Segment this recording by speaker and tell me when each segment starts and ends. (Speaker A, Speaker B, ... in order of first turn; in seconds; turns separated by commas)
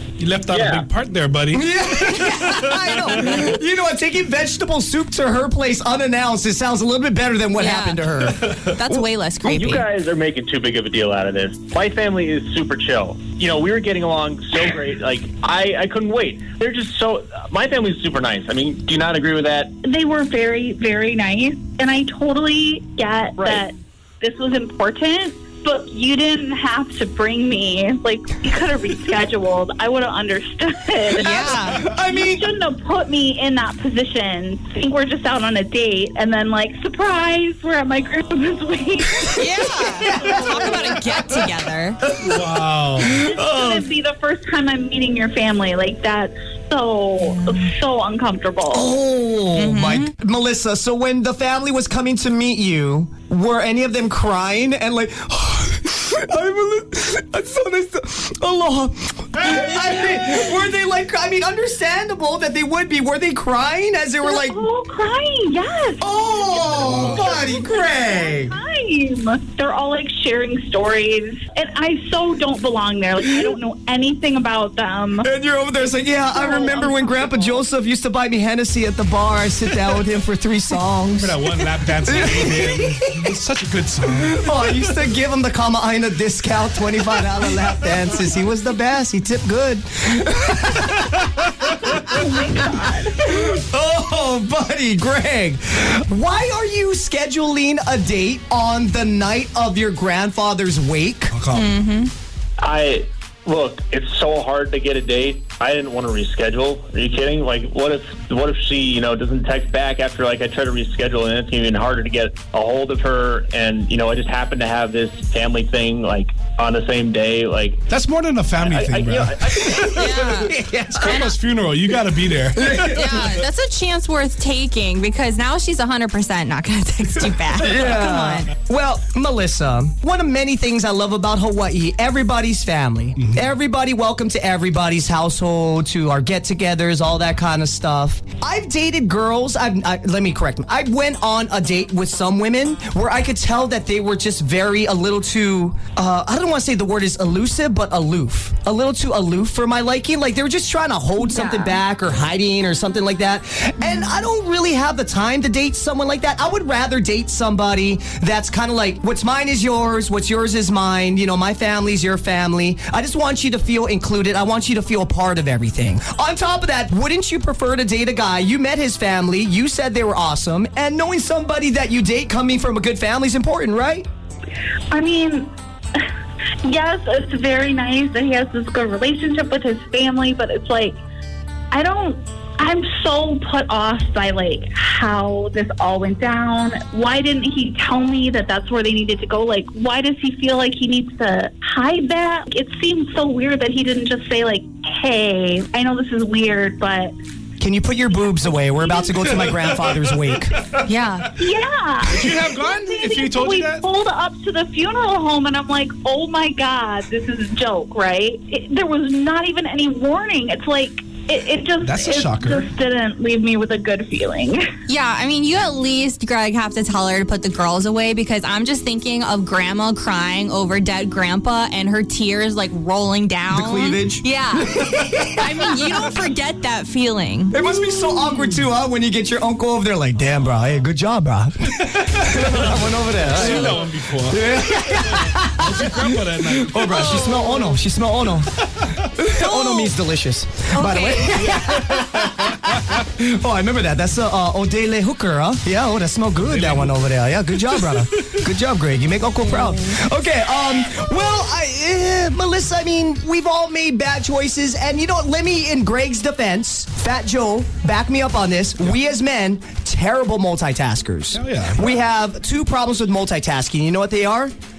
Speaker A: 0.2-3.4, Speaker B: 0.5-0.9, Speaker C: 1.5-9.0, Speaker D: 7.5-9.8, Speaker A: 8.4-8.7, Speaker B: 9.4-19.7, Speaker E: 19.8-39.5, Speaker B: 23.4-23.6, Speaker D: 31.2-31.8, Speaker C: 31.3-32.4, Speaker D: 39.3-42.0, Speaker C: 40.0-40.9, Speaker A: 42.1-43.2, Speaker C: 43.0-43.9, Speaker E: 43.1-48.9, Speaker D: 47.2-47.7, Speaker C: 48.7-64.6, Speaker D: 49.5-50.1, Speaker E: 64.2-75.3, Speaker C: 66.0-68.6, Speaker A: 66.7-67.2, Speaker C: 75.2-83.3, Speaker E: 76.3-77.6, Speaker A: 81.1-84.5, Speaker C: 84.0-101.3, Speaker E: 91.8-93.6, Speaker A: 101.3-101.8, Speaker D: 101.5-102.1, Speaker B: 102.6-117.8, Speaker A: 117.9-120.2, Speaker B: 118.6-120.1, Speaker C: 119.7-121.3, Speaker D: 120.0-121.3, Speaker A: 120.9-123.4, Speaker C: 122.5-123.2, Speaker D: 122.9-128.4, Speaker C: 127.6-174.1, Speaker A: 133.2-133.4, Speaker D: 151.2-151.8, Speaker D: 153.8-154.2, Speaker E: 174.9-175.5, Speaker E: 176.6-181.0, Speaker E: 181.7-197.1, Speaker C: 197.6-200.6, Speaker A: 200.1-200.9, Speaker D: 200.9-201.3, Speaker E: 201.3-214.7, Speaker A: 202.1-203.8, Speaker A: 211.8-212.7, Speaker D: 214.9-227.6, Speaker C: 223.5-226.1, Speaker C: 227.5-238.5, Speaker A: 231.9-237.2, Speaker D: 236.9-237.7, Speaker A: 238.6-239.1, Speaker C: 239.2-264.5, Speaker D: 239.4-239.9, Speaker D: 240.7-241.6, Speaker A: 241.3-243.0, Speaker A: 246.3-246.9, Speaker A: 247.7-248.4, Speaker D: 249.4-249.9, Speaker A: 261.3-261.8